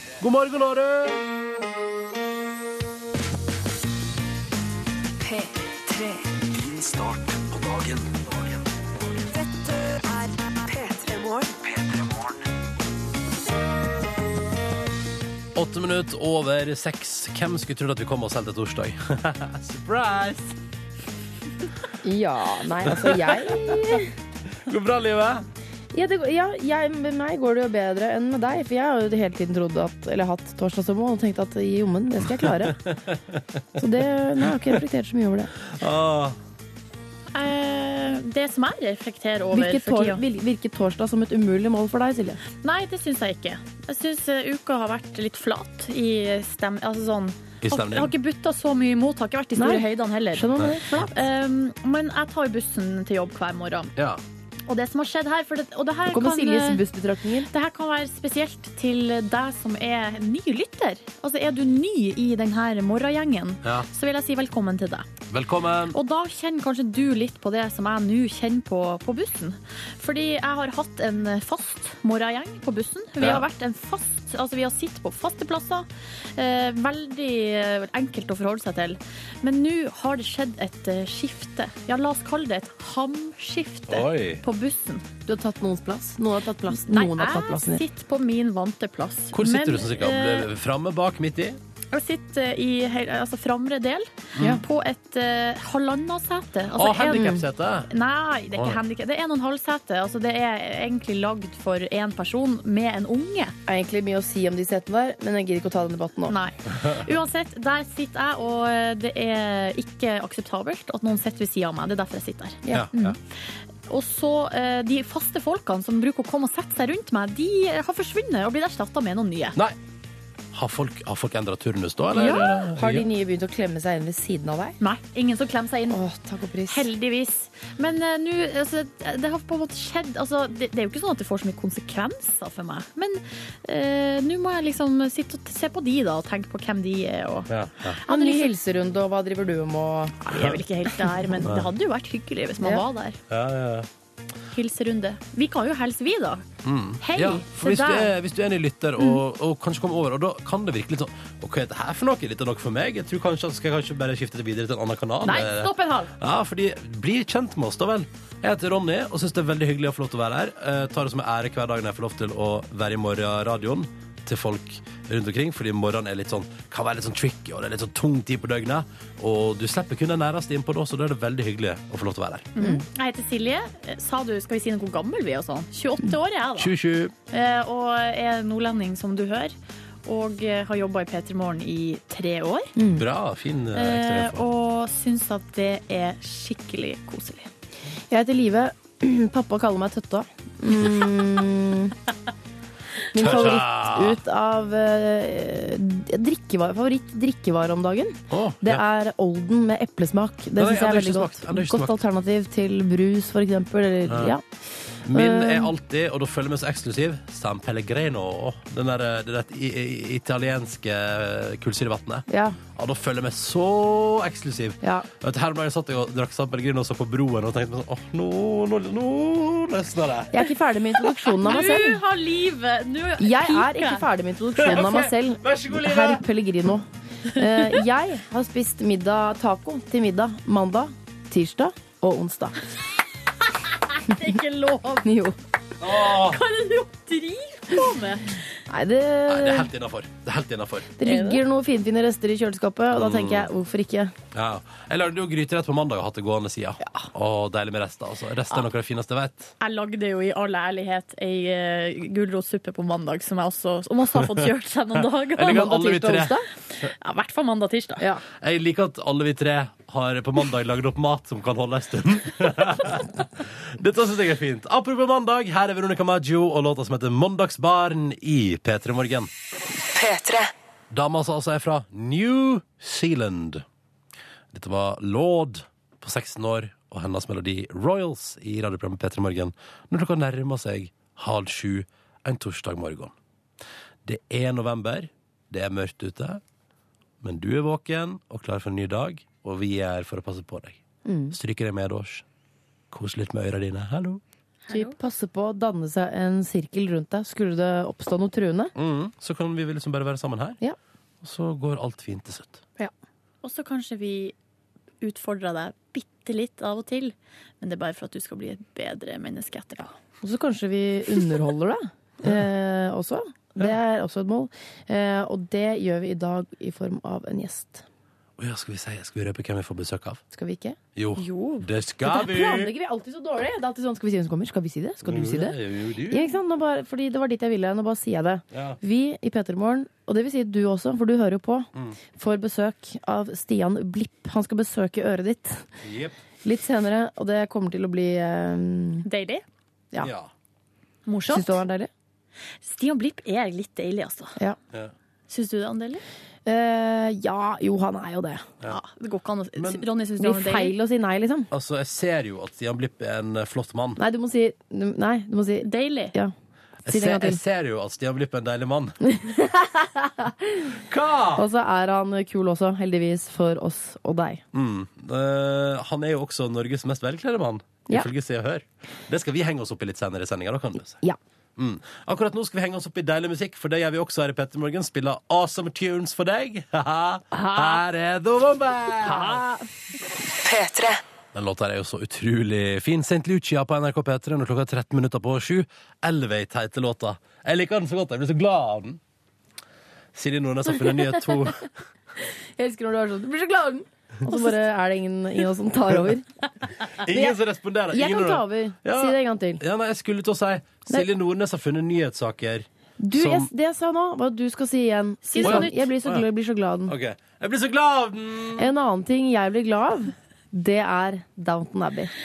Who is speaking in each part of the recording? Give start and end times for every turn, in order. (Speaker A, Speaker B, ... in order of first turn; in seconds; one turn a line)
Speaker A: 0.2-1.2
Speaker B: 5.2-6.2
Speaker C: 6.5-8.6
Speaker B: 9.3-11.5
Speaker C: 11.6-12.4
Speaker A: 15.6-20.5
Speaker D: 22.0-24.1
Speaker A: 22.9-24.0
Speaker A: 24.7-25.4
Speaker D: 25.9-32.8
Speaker A: 32.4-33.4
Speaker D: 33.8-35.5
Speaker A: 35.7-36.4
Speaker E: 37.3-40.2
Speaker D: 39.5-42.4
Speaker E: 42.6-50.5
Speaker A: 47.6-48.1
Speaker D: 49.6-51.2
Speaker E: 51.1-53.9
Speaker A: 54.0-54.2
Speaker E: 54.7-56.8
Speaker D: 56.1-57.5
Speaker E: 57.5-65.1
Speaker A: 65.3-66.0
Speaker E: 65.9-85.0
Speaker A: 73.2-73.4
Speaker A: 83.9-84.4
Speaker D: 85.3-87.8
Speaker E: 86.7-90.5
Speaker A: 89.3-91.6
Speaker E: 91.9-97.3
Speaker A: 96.8-97.9
Speaker D: 97.1-97.4
Speaker E: 97.9-103.5
Speaker D: 103.7-106.3
Speaker E: 106.3-113.2
Speaker D: 112.7-112.9
Speaker A: 112.7-113.2
Speaker E: 113.9-119.6
Speaker A: 120.5-123.1
Speaker E: 122.2-122.6
Speaker D: 122.8-124.8
Speaker E: 124.8-126.0
Speaker D: 125.9-126.9
Speaker E: 126.7-137.5
Speaker A: 137.5-138.0
Speaker E: 138.1-138.5
Speaker D: 138.1-141.4
Speaker E: 140.3-143.2
Speaker A: 143.3-143.9
Speaker E: 144.5-146.5
Speaker A: 146.6-172.5
Speaker E: 147.0-148.1
Speaker E: 155.2-156.1
Speaker E: 172.6-176.7
Speaker D: 172.6-172.8
Speaker A: 176.6-177.1
Speaker E: 177.3-179.5
Speaker E: 180.1-182.7
Speaker D: 182.8-183.1
Speaker A: 182.9-184.5
Speaker E: 183.7-187.5
Speaker D: 188.1-191.9
Speaker D: 193.1-204.4
Speaker A: 193.2-194.2
Speaker A: 198.3-198.8
Speaker A: 200.6-202.0
Speaker A: 204.1-204.3
Speaker A: 205.1-220.5
Speaker D: 205.1-205.7
Speaker D: 212.3-212.6
Speaker D: 214.8-215.1
Speaker D: 220.3-222.0
Speaker E: 221.4-224.1
Speaker D: 223.2-232.6
Speaker A: 224.6-226.2
Speaker E: 233.4-235.1
Speaker D: 235.0-235.4
Speaker A: 235.8-236.4
Speaker E: 236.1-238.4
Speaker D: 238.7-239.7
Speaker A: 239.3-240.9
Speaker D: 241.0-244.1
Speaker E: 241.0-241.4
Speaker A: 243.0-243.5
Speaker A: 244.3-249.5
Speaker E: 249.6-255.7
Speaker A: 255.4-256.4
Speaker D: 255.4-256.5
Speaker E: 256.8-258.1
Speaker A: 258.4-269.3
Speaker B: 269.9-270.5
Speaker A: 270.9-273.6
Speaker A: 274.5-283.1
Speaker A: 284.1-286.4
Speaker A: 287.2-290.8
Speaker D: 291.1-291.4
Speaker A: 291.3-292.2
Speaker A: 292.9-294.2
Speaker E: 294.6-295.0
Speaker D: 294.7-298.7
Speaker A: 298.8-300.6
Speaker A: 301.2-302.6
Speaker E: 303.4-304.3
Speaker E: 305.0-309.9
Speaker D: 310.2-317.9
Speaker A: 318.4-320.2
Speaker D: 320.3-320.8
Speaker A: 321.0-322.7
Speaker E: 321.2-321.7
Speaker D: 322.0-335.7
Speaker A: 325.1-326.3
Speaker A: 328.5-328.8
Speaker A: 335.8-336.1
Speaker D: 336.4-339.1
Speaker E: 339.1-339.4
Speaker A: 340.0-340.3
Speaker E: 341.1-341.6
Speaker D: 341.3-341.9
Speaker E: 342.6-344.4
Speaker E: 345.3-346.0
Speaker D: 346.5-348.5
Speaker E: 348.7-350.8
Speaker A: 349.6-349.9
Speaker D: 350.2-351.5
Speaker A: 351.5-354.0
Speaker D: 354.0-356.3
Speaker E: 355.6-356.1
Speaker A: 356.9-359.1
Speaker D: 356.9-357.4
Speaker D: 359.1-360.8
Speaker A: 360.9-361.4
Speaker D: 361.4-364.4
Speaker A: 364.5-371.0
Speaker A: 371.6-379.4
Speaker D: 377.3-377.8
Speaker D: 379.0-379.6
Speaker B: 380.4-381.0
Speaker A: 381.3-389.0
Speaker A: 390.1-391.7
Speaker D: 392.6-396.3
Speaker A: 397.0-403.5
Speaker D: 397.1-397.4
Speaker D: 397.9-399.6
Speaker D: 403.0-406.9
Speaker E: 405.2-405.8
Speaker A: 405.4-406.3
Speaker A: 406.9-408.7
Speaker D: 408.6-412.1